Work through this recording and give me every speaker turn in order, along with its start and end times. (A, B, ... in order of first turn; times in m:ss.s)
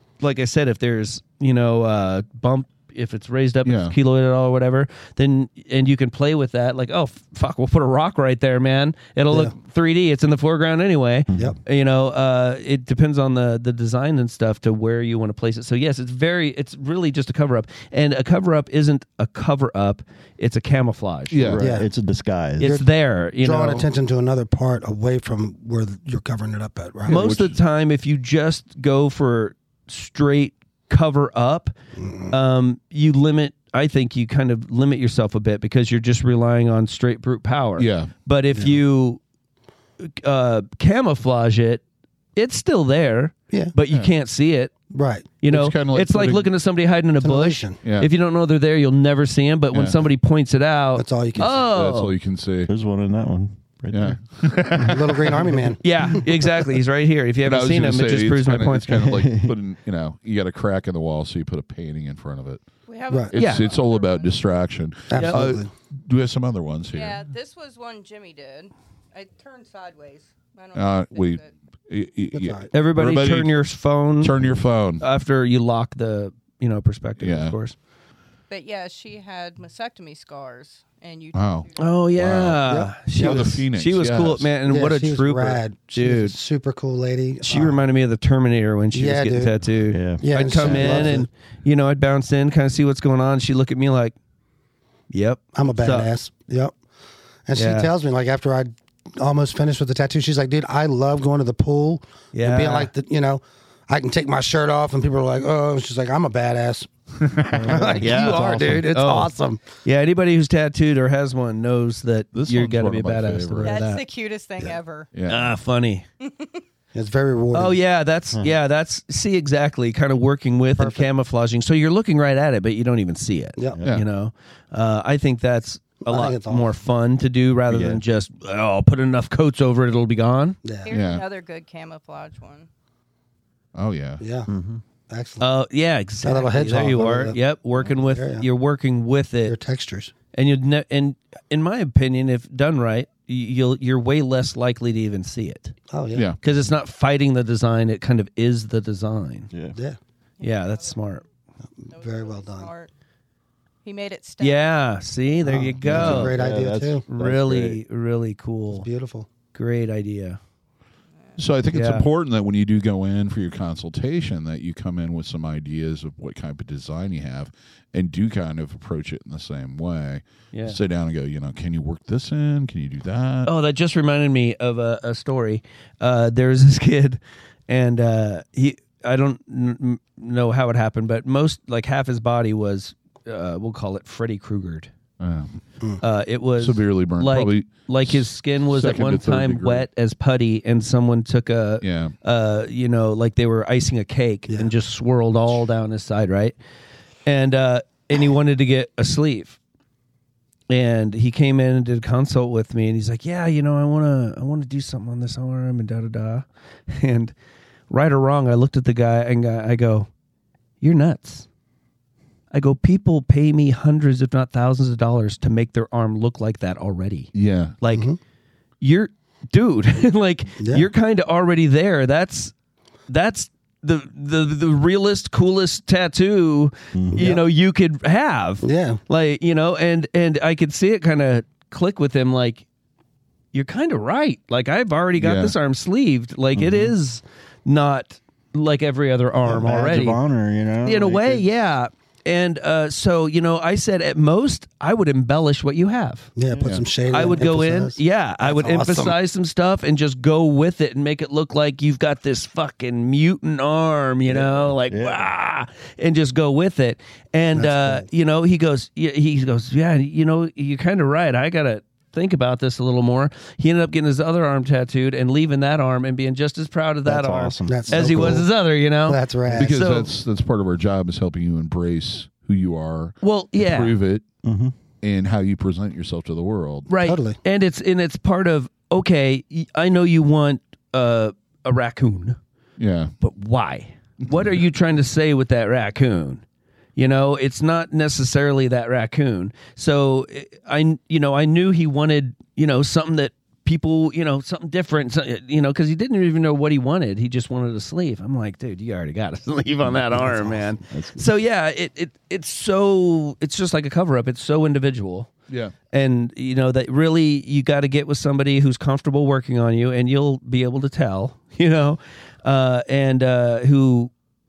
0:00.2-0:21.5 A
0:03.6-0:03.9 B
0:11.3-0:11.6 C
0:21.3-0:21.7 B
0:21.4-0:22.8 C
0:21.6-0:21.9 D
0:22.6-0:23.9 A
0:22.6-0:27.2 D
0:27.1-0:31.7 A
0:27.1-0:27.6 B
0:32.0-0:32.4 D
0:32.3-0:39.2 A
0:37.8-0:38.1 B
0:38.5-0:38.8 D
0:40.0-0:41.8 A
0:42.4-0:44.7 A
0:44.9-0:45.3 D
0:45.4-0:52.1 A
0:45.5-0:46.5 B
0:47.2-0:47.8 D
0:47.8-0:48.1 B
0:49.7-0:50.1 B
0:51.0-0:51.7 D
0:51.5-0:52.7 B
0:52.7-0:54.2 C
0:53.9-0:55.4 B
0:54.7-0:55.3 C
0:54.9-0:56.2 D
0:55.8-0:59.1 A
0:57.4-1:02.6 B
0:59.0-0:59.6 C
1:02.9-1:04.4 E
1:03.3-1:07.2 B
1:03.4-1:03.7 A
1:05.1-1:05.7 D
1:05.2-1:05.6 A
1:06.9-1:11.5 E
1:10.8-1:13.6 B
1:12.3-1:12.7 D
1:12.7-1:14.3 A
1:14.2-1:15.0 B
1:15.0-1:17.8 A
1:17.2-1:17.6 B
1:18.5-1:21.9 E
1:21.3-1:24.5 B
1:21.8-1:26.4 A
1:22.7-1:23.6 D
1:24.6-1:27.8 D
1:27.4-1:34.2 A
1:28.9-1:29.5 D
1:29.9-1:31.2 C
1:30.2-1:31.3 D
1:35.1-1:36.1 A
1:35.5-1:36.8 D
1:37.5-1:46.9 D
1:37.6-1:37.9 A
1:42.3-1:42.9 A
1:47.2-1:47.8 B
1:47.5-1:48.8 C
1:47.6-1:49.6 D
1:47.8-1:54.0 A
1:52.3-1:53.9 B
1:53.6-1:55.1 E
1:55.1-1:55.5 B
1:55.3-1:56.0 A
1:56.2-1:56.6 E
1:56.9-1:57.8 D
1:57.5-2:10.6 A
2:00.8-2:01.1 D
2:06.0-2:06.7 D
2:07.7-2:08.0 C
2:10.6-2:11.0 D
2:10.8-2:12.7 E
2:10.9-2:11.2 B
2:13.7-2:14.2 B
2:14.2-2:14.5 D
2:14.5-2:14.8 C
2:15.1-2:15.5 D
2:15.4-2:19.6 A
2:16.2-2:17.4 D
2:17.9-2:18.5 D
2:19.5-2:20.1 D
2:20.3-2:25.8 A
2:25.9-2:26.3 D
2:26.4-2:29.5 A
2:29.5-2:29.8 C
2:30.4-2:31.0 E
2:30.4-2:31.2 A
2:31.8-2:32.7 D
2:31.9-2:32.9 E
2:33.8-2:34.9 E
2:34.4-2:36.4 A
2:35.4-2:37.0 D
2:35.9-2:37.8 C
2:36.0-2:36.3 B
2:37.1-2:38.9 A
2:38.7-2:39.3 D
2:39.5-2:40.4 A
2:41.4-2:53.5 B
2:41.7-2:42.0 A
2:50.5-2:50.8 A
2:53.4-3:04.9 A
3:05.2-3:05.6 B
3:06.0-3:16.6 A
3:06.6-3:09.9 B
3:11.8-3:12.1 B
3:17.3-3:19.6 A
3:20.7-3:27.3 A
3:27.9-3:30.1 A
3:30.8-3:31.5 A
3:32.5-3:38.1 A
3:37.3-3:37.8 B
3:37.9-3:38.2 D
3:38.8-3:42.5 A
3:40.6-3:40.9 D
3:43.1-3:52.6 A
3:46.9-3:47.3 C
3:47.1-3:47.4 D
3:48.6-3:49.0 D
3:53.5-4:00.2 A
3:55.2-3:55.5 B
3:56.6-3:57.0 C
3:59.4-4:01.5 C
4:00.8-4:06.3 A
4:06.4-4:09.2 D
4:07.1-4:30.1 A
4:14.3-4:15.2 C
4:17.5-4:18.1 D
4:27.1-4:28.4 C
4:27.7-4:28.5 D
4:29.1-4:29.8 D
4:29.5-4:34.2 B
4:33.2-4:34.0 A
4:34.4-4:34.7 C
4:35.0-4:36.9 B
4:36.9-4:42.4 A
4:37.0-4:37.4 D
4:42.8-4:43.1 B
4:43.2-4:46.4 A
4:47.0-5:05.3 A
4:59.9-5:01.2 C
5:05.5-5:05.7 B
5:05.9-5:14.1 A